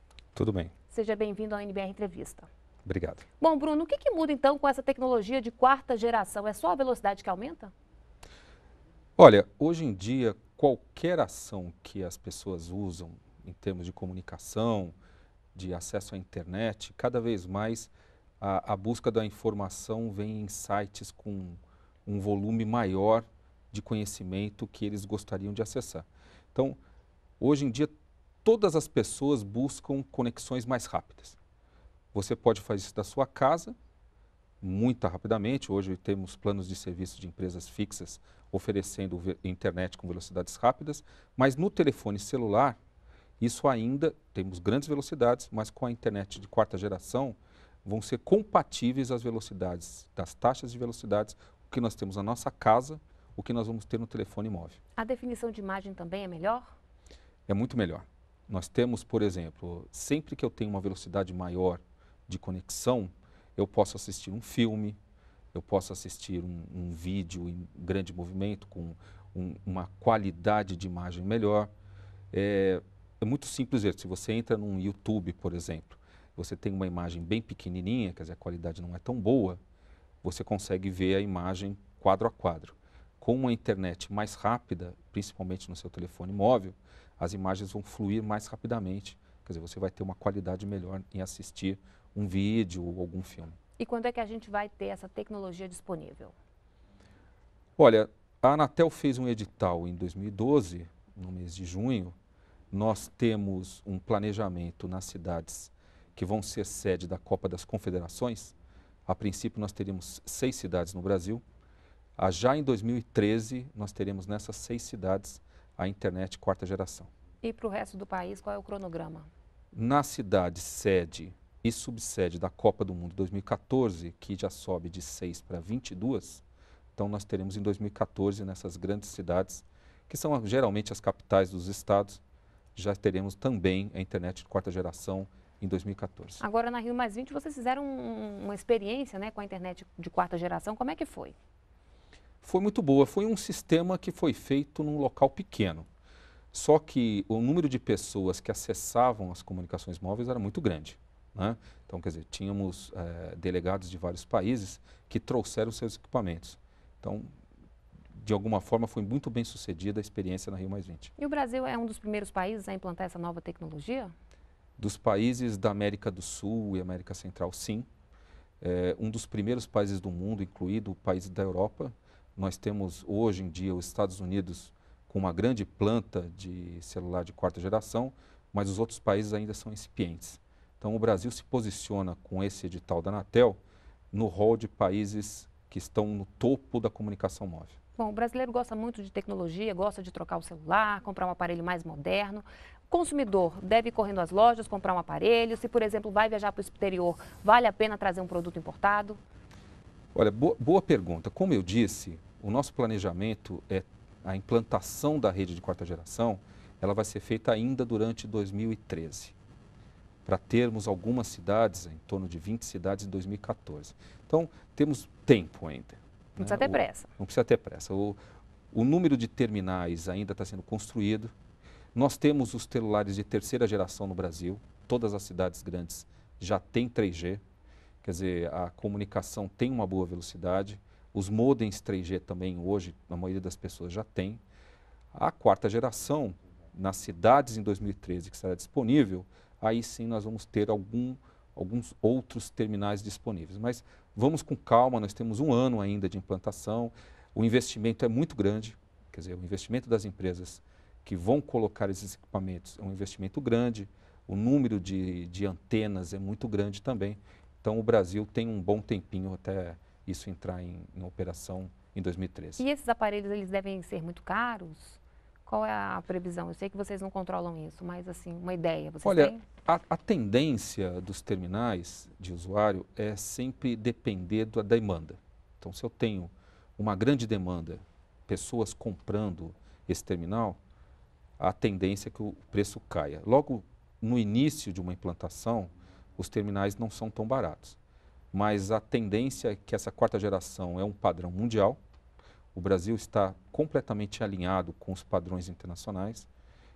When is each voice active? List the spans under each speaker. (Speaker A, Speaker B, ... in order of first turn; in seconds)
Speaker A: 0.3-0.7, 2.9-3.2, 9.2-14.9, 15.6-26.8, 27.4-27.9, 28.4-31.4, 32.1-33.8, 34.6-42.8, 43.4-54.8, 57.5-65.0, 65.5-71.7, 72.3-79.6, 80.2-93.6, 97.8-102.2, 102.7-108.5, 109.1-111.4, 112.2-117.1, 119.7-126.4, 127.0-132.2, 132.8-136.4, 142.4-145.9, 146.5-157.3, 158.1-161.1, 164.8-167.9, 168.6-183.6, 184.1-187.8, 200.1-209.3, 210.2-218.2, 218.7-221.3, 221.9-227.4, 228.0-234.4, 235.1-262.6, 269.0-280.6, 281.4-287.8, 288.3-291.8, 292.5-296.3
Speaker B: 0.9-2.5, 3.4-7.7, 55.0-56.7, 93.8-96.3, 117.4-119.3, 136.4-141.3, 161.2-164.1, 188.0-199.2, 216.4-217.1, 262.6-269.4